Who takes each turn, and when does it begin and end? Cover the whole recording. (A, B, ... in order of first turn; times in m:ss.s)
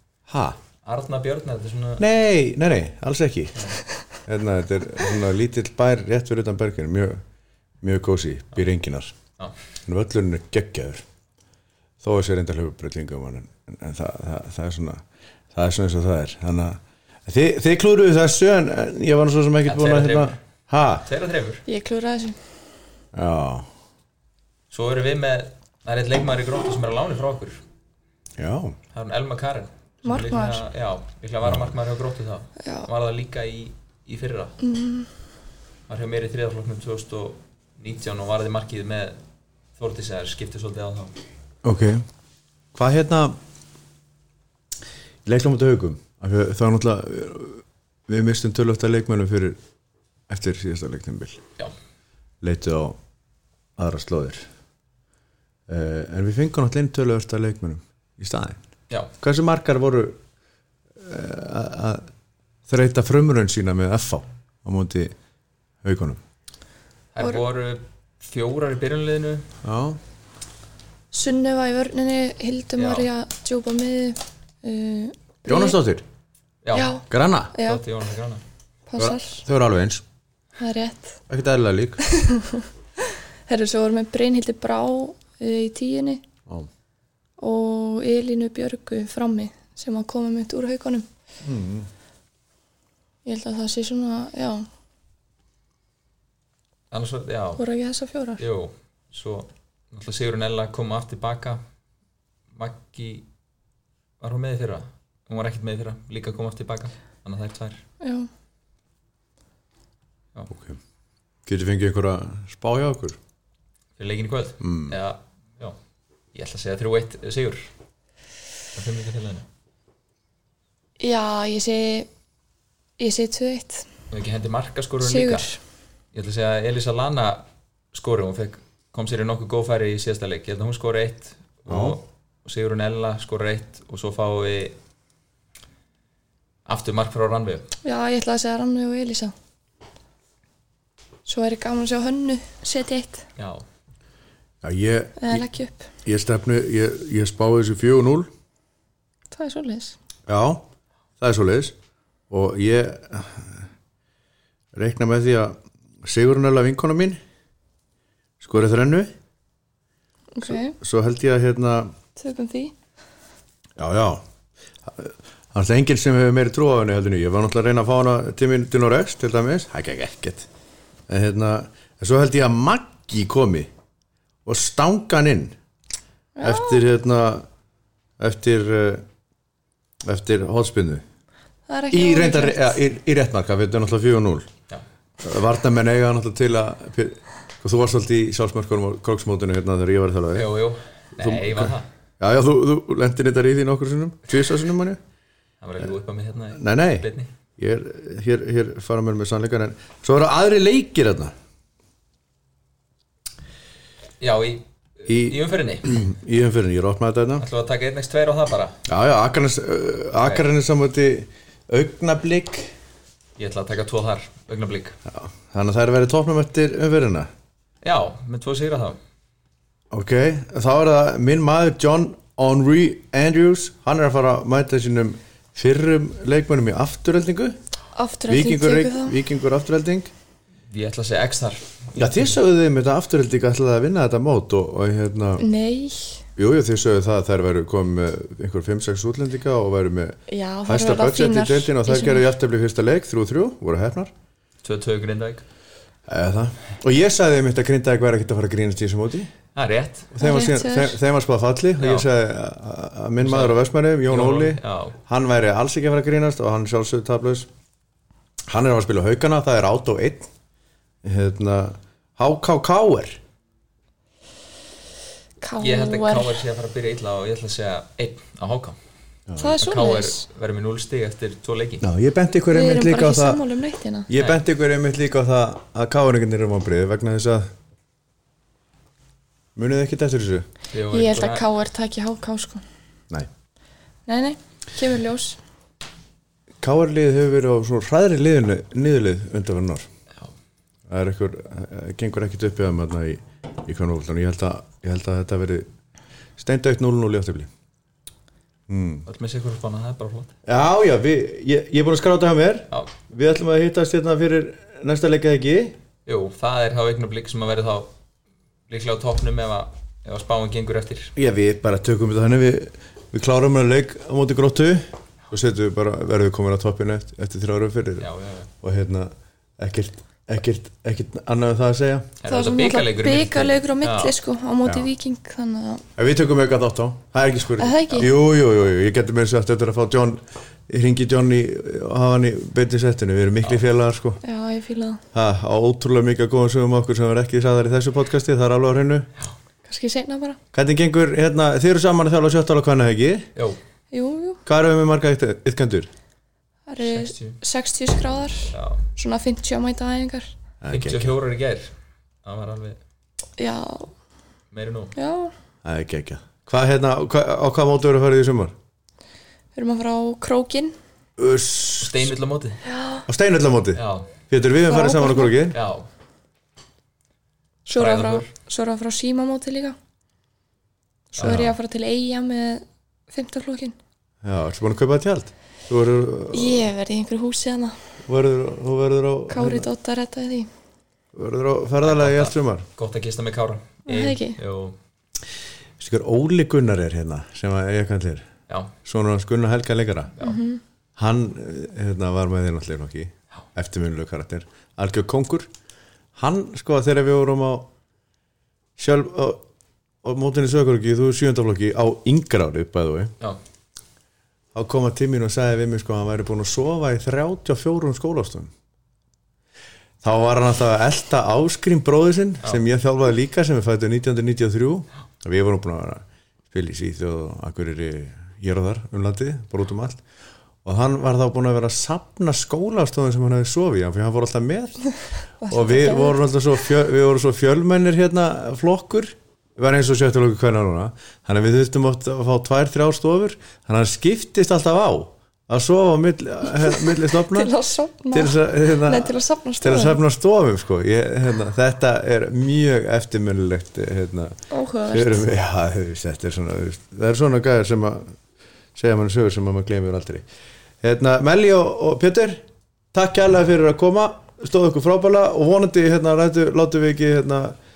0:00.3-0:00.6 A
0:00.8-0:02.0 B
0:02.0-0:03.7 A
0:04.3-0:07.2 A
0:07.8-0:09.2 A
0:09.9-0:11.0 A
0:12.0-0:21.1 A
0:19.7-0:20.4 B
0:21.1-0:21.6 B
0:21.7-0:22.5 C
0:23.1-0:23.7 A
0:24.7-0:27.6 B
0:28.4-0:28.8 A
0:28.9-0:34.6 B
0:30.0-0:30.7 C
0:31.4-0:31.8 A
0:32.6-0:32.9 C
0:34.6-0:35.1 C
0:35.9-0:39.2 B
0:39.8-0:41.1 B
0:41.6-0:42.0 A
0:42.8-0:43.4 A
0:45.3-0:49.6 A
0:50.3-0:51.4 A
0:52.4-0:53.0 A
0:53.8-0:54.5 A
0:55.7-0:58.6 A
0:59.2-1:00.2 A
1:01.0-1:02.1 A
1:02.7-1:05.1 A
1:05.8-1:06.2 A
1:07.1-1:09.5 B
1:09.6-1:10.0 A
1:11.1-1:15.8 C
1:12.8-1:13.1 B
1:15.5-1:16.0 A
1:16.6-1:17.0 B
1:16.7-1:17.8 C
1:17.1-1:17.6 A
1:17.6-1:18.4 B
1:18.9-1:19.4 C
1:19.0-1:20.0 A
1:20.6-1:21.2 C
1:21.3-1:22.0 A
1:22.0-1:26.2 C
1:27.4-1:31.1 C
1:31.4-1:31.9 A
1:33.2-1:34.7 C
1:36.9-1:37.6 B
1:37.6-1:38.4 C
1:38.4-1:41.6 B
1:42.5-1:43.3 B
1:44.2-1:47.8 B
1:48.0-1:48.3 C
1:50.5-1:50.8 A
1:51.5-1:53.2 A
1:54.0-1:55.8 B
1:54.6-1:55.0 A
1:56.3-1:57.7 B
1:58.7-1:59.5 B
2:01.0-2:02.1 C
2:03.0-2:03.9 C
2:04.1-2:05.5 B
2:05.0-2:05.6 C
2:06.1-2:14.8 B
2:11.7-2:12.0 A
2:16.7-2:17.7 B
2:17.8-2:19.3 C
2:21.2-2:23.2 C
2:23.4-2:23.6 B
2:24.6-2:25.5 A
2:25.2-2:25.9 C
2:26.0-2:28.3 A
2:29.3-2:30.0 C
2:30.3-2:30.6 A
2:31.2-2:31.8 A
2:32.3-2:33.6 A
2:34.7-2:37.2 A
2:38.4-2:39.1 A
2:40.4-2:40.8 C
2:40.4-2:41.9 A
2:42.2-2:42.7 C
2:43.8-2:44.2 A
2:44.9-2:50.5 A
2:51.1-2:53.7 A
2:54.4-2:55.5 A
2:56.4-2:56.8 C
2:56.4-2:57.5 A
2:58.2-2:59.0 A
3:00.0-3:01.0 A
3:01.7-3:02.8 C
3:01.9-3:04.5 A
3:05.2-3:10.5 A
3:10.3-3:11.9 B
3:11.2-3:15.0 A
3:15.6-3:17.3 B
3:16.6-3:17.1 A
3:17.6-3:21.3 A
3:24.2-3:25.9 B
3:25.1-3:27.4 A
3:27.4-3:28.8 B
3:28.9-3:32.7 A
3:33.4-3:35.0 B
3:35.1-3:37.3 A
3:37.8-3:39.0 B
3:39.9-3:47.6 A
3:47.9-3:49.2 C
3:48.3-3:50.1 A
3:50.7-3:52.4 B
3:52.0-3:55.5 A
3:55.4-3:56.2 C
3:56.4-4:04.1 A
4:00.3-4:02.3 C
4:04.6-4:05.4 B
4:06.1-4:09.3 A
4:09.6-4:10.1 B
4:10.1-4:17.5 A
4:10.2-4:11.0 C
4:11.8-4:12.1 B
4:13.2-4:15.0 B
4:18.5-4:20.3 A
4:21.0-4:23.2 A
4:25.4-4:26.4 C
4:25.6-4:28.8 B
4:29.3-4:29.6 A
4:29.4-4:30.2 C
4:29.6-4:31.8 B
4:31.8-4:33.4 A
4:32.5-4:34.1 C
4:34.1-4:37.5 A
4:34.2-4:34.4 B
4:39.6-4:40.5 A
4:40.7-4:41.5 B
4:40.9-4:42.6 C
4:44.1-4:45.4 C
4:46.6-4:49.9 A
4:50.9-4:55.7 A
4:56.4-4:57.5 A
4:58.7-4:59.1 A
4:59.1-5:00.3 B
5:00.5-5:05.8 A
5:06.1-5:07.9 B
5:08.7-5:11.1 B
5:11.2-5:18.1 A
5:18.0-5:18.5 B
5:18.6-5:22.1 A
5:22.2-5:24.1 B
5:22.3-5:25.8 C
5:26.0-5:34.2 A
5:27.6-5:28.1 C
5:34.2-5:35.0 C
5:35.1-5:39.1 A
5:39.7-5:40.4 C
5:40.5-5:43.3 A
5:43.9-5:44.4 C
5:44.4-5:45.9 A
5:46.7-5:50.3 C
5:46.8-5:47.4 B
5:48.5-5:48.8 B
5:50.6-5:51.1 A
5:50.7-5:51.7 B
5:52.2-5:52.8 B
5:53.4-5:53.9 C
5:54.5-5:54.9 B
5:55.0-5:55.3 C
5:55.6-5:58.5 A
5:59.6-6:00.8 C
6:01.2-6:02.1 A
6:01.8-6:02.6 B
6:02.6-6:03.1 C
6:03.1-6:05.6 A
6:03.8-6:04.1 B
6:04.7-6:05.4 C
6:05.5-6:05.9 B
6:07.7-6:09.8 C
6:07.8-6:08.3 B
6:11.1-6:13.8 C
6:11.2-6:11.5 A
6:11.2-6:11.5 B
6:14.2-6:16.7 A
6:16.3-6:17.8 C
6:18.0-6:19.7 A
6:19.3-6:20.5 C
6:21.1-6:22.7 A
6:21.8-6:24.8 B
6:23.9-6:24.4 C
6:25.8-6:28.3 A
6:28.8-6:30.1 A
6:30.2-6:30.6 C
6:31.0-6:35.5 A
6:36.2-6:37.7 A
6:38.8-6:39.4 A
6:40.0-6:43.1 A
6:44.5-6:48.5 A
6:50.0-7:00.0 A
7:00.6-7:04.9 A
7:05.4-7:06.2 C
7:05.4-7:17.5 A
7:16.6-7:20.0 C
7:18.1-7:28.2 A
7:24.5-7:25.3 C
7:28.8-7:30.2 A
7:30.8-7:37.6 A